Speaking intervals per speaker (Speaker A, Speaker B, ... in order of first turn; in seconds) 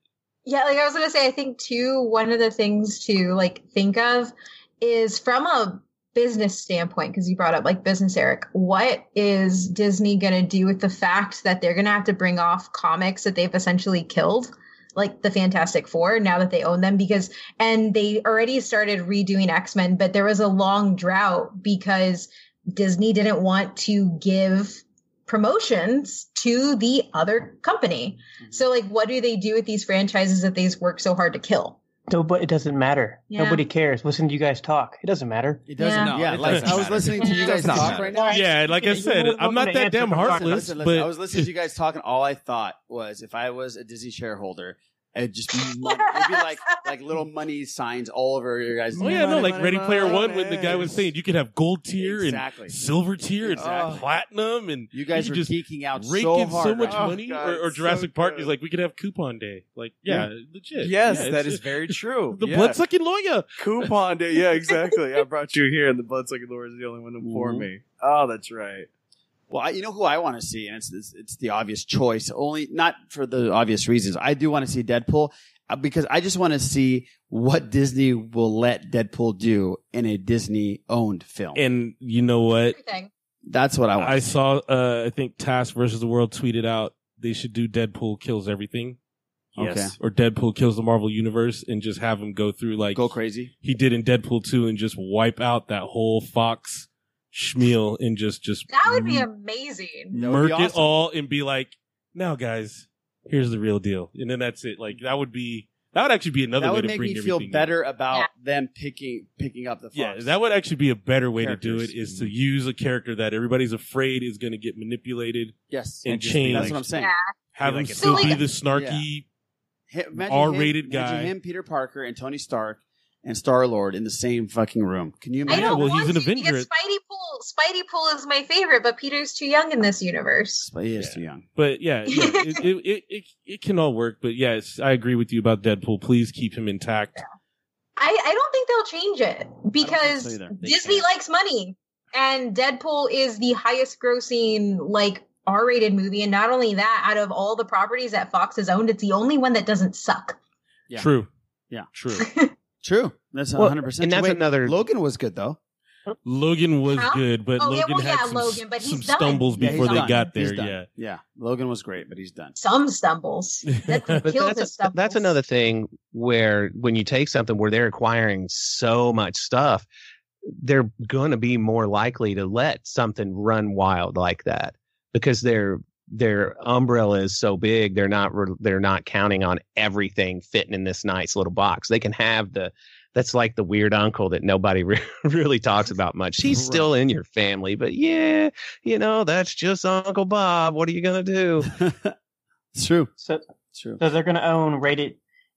Speaker A: 0.5-31.8, 33.3-33.6, 35.8-36.1, 37.2-38.3, 45.8-46.8, 82.7-83.1, 98.7-100.2, 116.9-117.3, 118.0-118.4, 125.5-130.7, 132.1-132.6, 138.0-150.4, 152.2-152.5, 156.9-160.3, 162.6-165.3
Speaker B: 32.1-35.6, 38.1-40.7, 194.0-195.2
Speaker C: 35.7-38.4, 40.3-50.4, 52.0-52.8, 53.4-54.0, 54.9-57.1, 67.2-67.7, 69.5-81.6, 83.5-84.4, 89.6-89.9, 93.0-93.5, 100.2-100.9, 106.6-110.4, 111.4-112.0, 115.7-117.1, 118.7-119.1, 119.9-125.9, 130.7-131.4, 139.8-141.1, 152.8-155.6, 159.6-162.6, 191.7-192.1, 192.8-193.1
Speaker D: 35.8-38.2, 48.9-51.1, 53.6-54.0, 56.8-58.5, 60.8-62.8, 63.6-68.9, 89.6-89.9, 112.0-112.3, 116.0-116.8, 117.5-118.6
Speaker E: 36.4-36.9, 38.3-41.2, 49.0-63.9, 81.5-82.8, 84.0-89.0, 90.0-93.1, 93.6-99.2, 100.1-107.8, 109.9-116.8, 117.6-119.2, 120.3-121.3, 125.5-126.7, 131.6-137.2, 151.0-151.3, 151.9-152.3, 156.2-160.9, 163.8-164.2
Speaker F: 153.6-154.8, 164.2-169.9, 170.6-191.7